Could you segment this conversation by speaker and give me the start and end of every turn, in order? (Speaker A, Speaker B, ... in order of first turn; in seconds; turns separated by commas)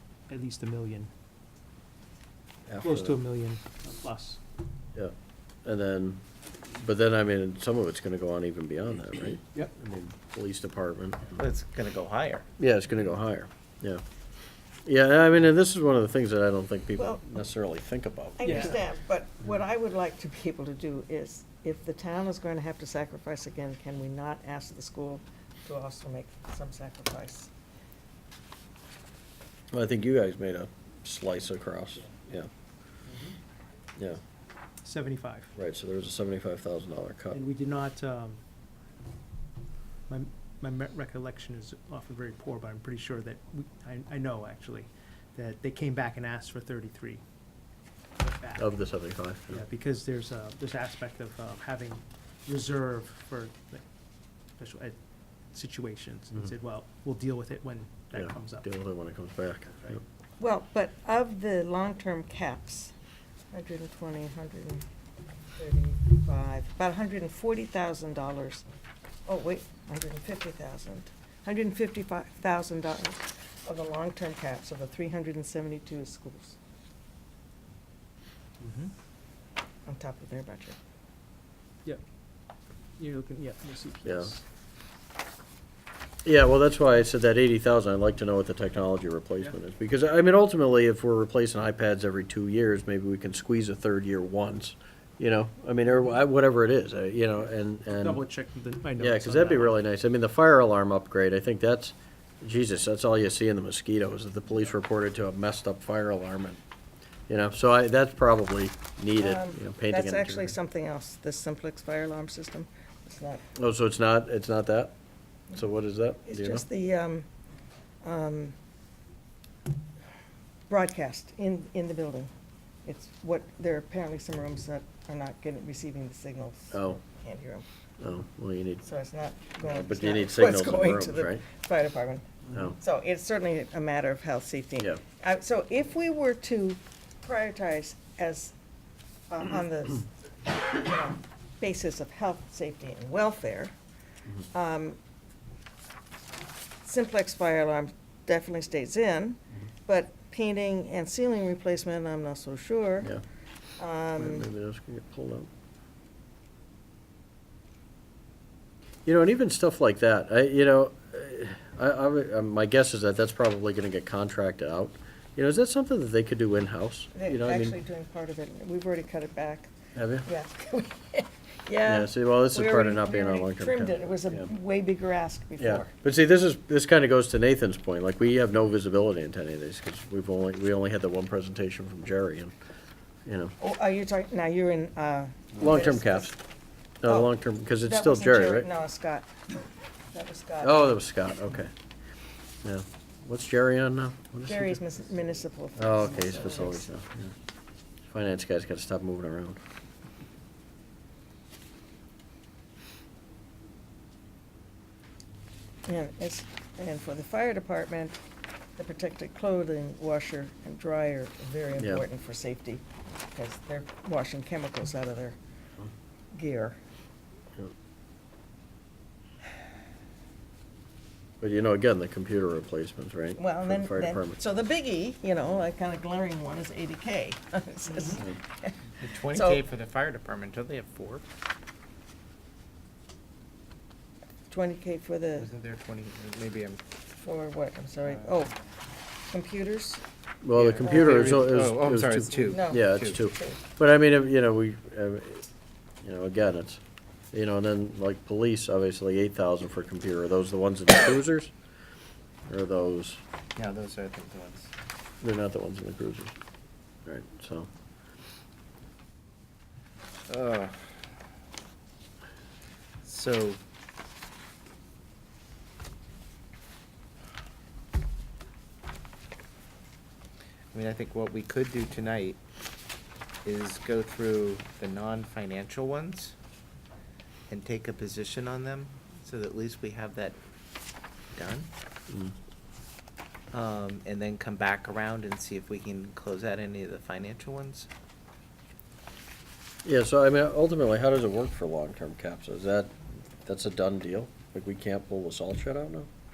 Speaker A: 0.3-1.1, Speaker B: 2.7-3.2, Speaker A: 2.8-4.4, Speaker B: 5.6-6.2, Speaker B: 6.8-11.4, Speaker C: 11.4-12.4, Speaker B: 12.6-14.0, Speaker B: 14.8-18.8, Speaker D: 17.0-17.2, Speaker D: 18.4-27.5, Speaker A: 18.4-18.8, Speaker B: 29.7-32.5, Speaker A: 33.1-33.3, Speaker A: 34.8-35.5, Speaker B: 35.5-37.4, Speaker A: 37.3-38.4, Speaker A: 40.1-47.2, Speaker A: 48.2-48.7, Speaker B: 48.6-49.6, Speaker A: 49.5-53.8, Speaker A: 54.6-55.0, Speaker A: 55.5-58.7, Speaker B: 58.1-60.0, Speaker D: 60.4-62.9, Speaker D: 63.5-64.8, Speaker D: 65.6-68.6, Speaker D: 69.3-76.6, Speaker A: 78.6-78.9, Speaker D: 79.9-80.8, Speaker A: 83.0-84.4, Speaker B: 84.0-84.3, Speaker B: 86.2-98.2, Speaker A: 97.9-99.8, Speaker B: 99.0-106.6, Speaker B: 107.3-110.6, Speaker D: 109.2-113.4, Speaker B: 113.5-114.9, Speaker B: 115.5-116.7, Speaker D: 116.2-117.2, Speaker D: 118.0-118.5, Speaker D: 120.7-122.3, Speaker D: 122.8-127.7, Speaker B: 126.7-127.0, Speaker B: 128.0-128.8, Speaker D: 128.8-138.5, Speaker B: 129.6-131.4, Speaker D: 139.3-143.7, Speaker D: 144.5-145.0, Speaker D: 146.8-153.1, Speaker D: 153.8-154.5, Speaker B: 154.2-155.5, Speaker B: 159.0-167.8, Speaker D: 167.1-169.7, Speaker B: 169.9-170.3, Speaker D: 170.2-175.9, Speaker B: 171.8-174.5, Speaker B: 175.6-182.5, Speaker B: 183.2-183.5, Speaker D: 183.6-186.3, Speaker B: 185.6-186.3, Speaker B: 187.0-188.7, Speaker D: 187.0-187.3, Speaker D: 187.8-189.3, Speaker D: 190.1-190.9, Speaker B: 190.6-191.7, Speaker B: 192.6-194.8, Speaker D: 194.5-196.9, Speaker B: 195.8-197.3, Speaker B: 198.1-199.6, Speaker D: 205.8-208.2, Speaker D: 208.8-215.4, Speaker B: 211.8-212.0, Speaker D: 216.3-216.8, Speaker B: 221.4-224.4, Speaker D: 223.4-229.6, Speaker C: 227.9-228.2, Speaker C: 229.0-231.2, Speaker D: 234.5-235.5, Speaker C: 235.4-236.8, Speaker D: 237.1-238.5, Speaker C: 238.0-238.4, Speaker D: 239.3-240.0, Speaker B: 240.4-245.4, Speaker C: 240.5-243.2, Speaker D: 240.8-241.3, Speaker D: 242.5-243.6, Speaker B: 246.0-246.8, Speaker B: 247.3-251.5, Speaker B: 252.5-253.2, Speaker C: 253.5-254.7, Speaker B: 255.2-256.4, Speaker B: 257.1-257.7, Speaker C: 260.3-261.0, Speaker C: 263.0-263.6, Speaker C: 270.7-272.4, Speaker C: 273.4-276.3, Speaker C: 277.5-280.4, Speaker C: 281.3-281.7, Speaker B: 282.1-282.3, Speaker C: 283.5-287.9, Speaker B: 289.8-296.1